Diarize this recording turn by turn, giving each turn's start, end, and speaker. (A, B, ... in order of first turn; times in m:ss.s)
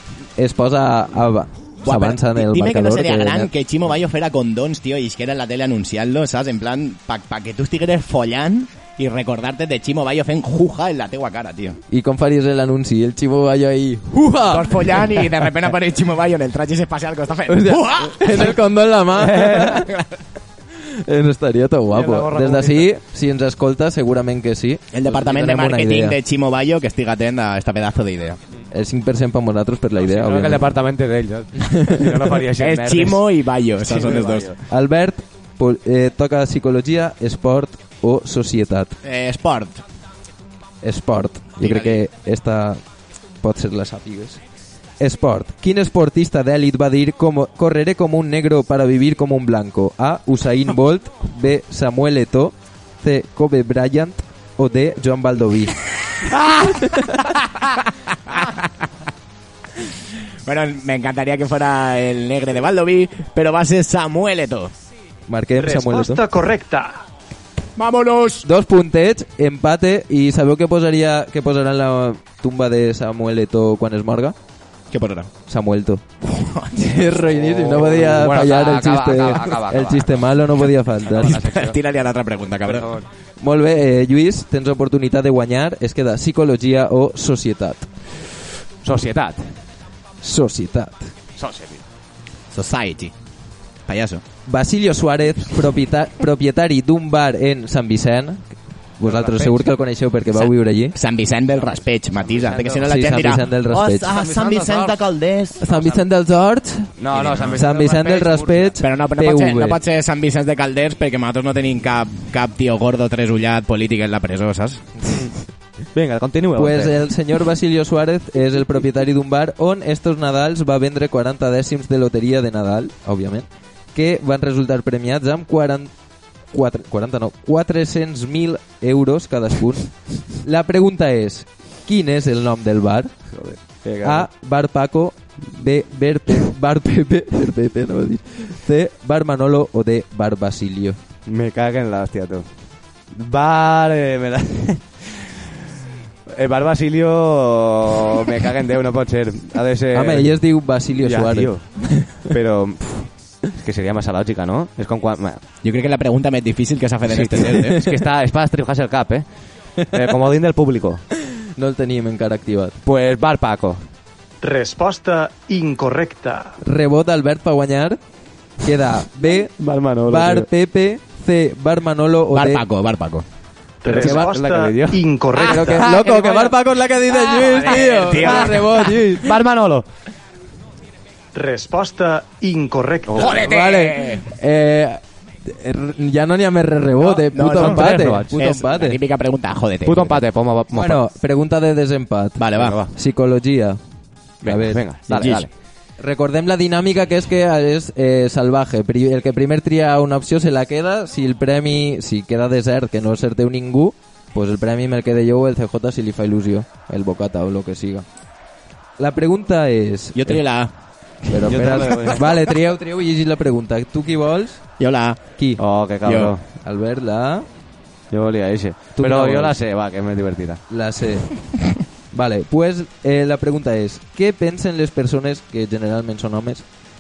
0:00.4-0:03.5 A
0:01.8-0:11.8 B
0:11.9-0:15.3 A
0:14.5-0:18.6 B
0:17.5-0:19.9 A
0:19.3-0:19.6 C
0:19.6-0:20.2 B
0:21.0-0:26.2 A
0:21.9-0:22.9 C
0:24.9-0:28.4 B
0:28.7-0:30.6 A
0:30.0-0:33.2 C
0:32.6-0:34.5 B
0:33.8-0:34.6 C
0:34.7-0:39.0 A
0:39.0-0:39.8 B
0:40.8-0:42.8 A
0:41.6-0:42.0 B
0:43.4-0:44.4 A
0:45.0-0:55.8 A
0:56.1-0:56.5 B
0:56.7-0:57.2 A
0:58.3-0:58.8 B
1:00.4-1:04.7 B
1:05.3-1:06.2 A
1:05.6-1:07.0 D
1:07.8-1:08.5 B
1:08.4-1:14.4 A
1:14.9-1:15.3 B
1:15.5-1:16.0 A
1:16.2-1:17.9 B
1:16.8-1:21.3 A
1:17.6-1:20.3 C
1:21.1-1:21.8 C
1:21.2-1:22.9 B
1:22.6-1:23.0 C
1:23.4-1:27.9 A
1:28.8-1:29.5 C
1:30.2-1:31.1 A
1:31.4-1:31.8 C
1:32.5-1:33.2 B
1:33.9-1:34.2 B
1:34.5-1:41.0 A
1:39.1-1:39.4 C
1:39.4-1:39.8 B
1:40.3-1:46.0 B
1:42.2-1:43.0 C
1:42.8-1:44.1 A
1:44.0-1:45.0 C
1:45.6-1:47.0 A
1:47.0-1:48.8 C
1:47.1-1:47.6 B
1:47.5-1:49.8 A
1:48.8-1:55.1 B
1:55.9-1:57.0 C
1:56.6-2:05.9 A
2:06.5-2:13.2 A
2:13.3-2:14.3 C
2:14.0-2:21.0 A
2:21.3-2:25.4 C
2:26.3-2:30.4 C
2:29.9-2:32.2 A
2:31.0-2:35.4 C
2:35.6-2:37.8 B
2:37.1-2:39.2 C
2:39.8-2:41.0 C
2:41.6-2:42.8 A
2:42.8-2:43.8 C
2:44.4-2:46.6 D
2:46.6-2:48.0 A
2:48.6-2:49.5 A
2:49.3-2:50.5 C
2:50.0-2:52.6 A
2:52.3-2:53.2 B
2:53.8-2:55.8 D
2:53.9-2:55.0 C
2:54.0-2:54.3 A
2:55.4-2:59.3 A
2:55.8-2:58.9 B
2:57.6-2:58.6 C
2:59.2-2:59.8 C
3:01.3-3:03.3 D
3:03.1-3:03.5 C
3:03.2-3:04.2 B
3:03.3-3:09.0 A
3:07.0-3:10.2 B
3:07.4-3:08.3 C
3:09.8-3:11.0 C
3:10.7-3:13.8 A
3:12.4-3:12.8 B
3:12.6-3:12.9 C
3:14.4-3:14.8 A
3:14.4-3:15.5 C
3:15.1-3:15.5 B
3:16.0-3:28.1 A
3:29.0-3:30.4 A
3:30.2-3:32.2 B
3:31.3-3:34.8 A
3:31.5-3:32.3 C
3:34.8-3:35.2 B
3:35.6-3:36.4 C
3:36.0-3:36.3 B
3:36.6-3:37.5 A
3:38.1-3:40.6 C
3:39.0-3:39.6 A
3:40.7-3:41.4 A
3:42.1-3:46.7 A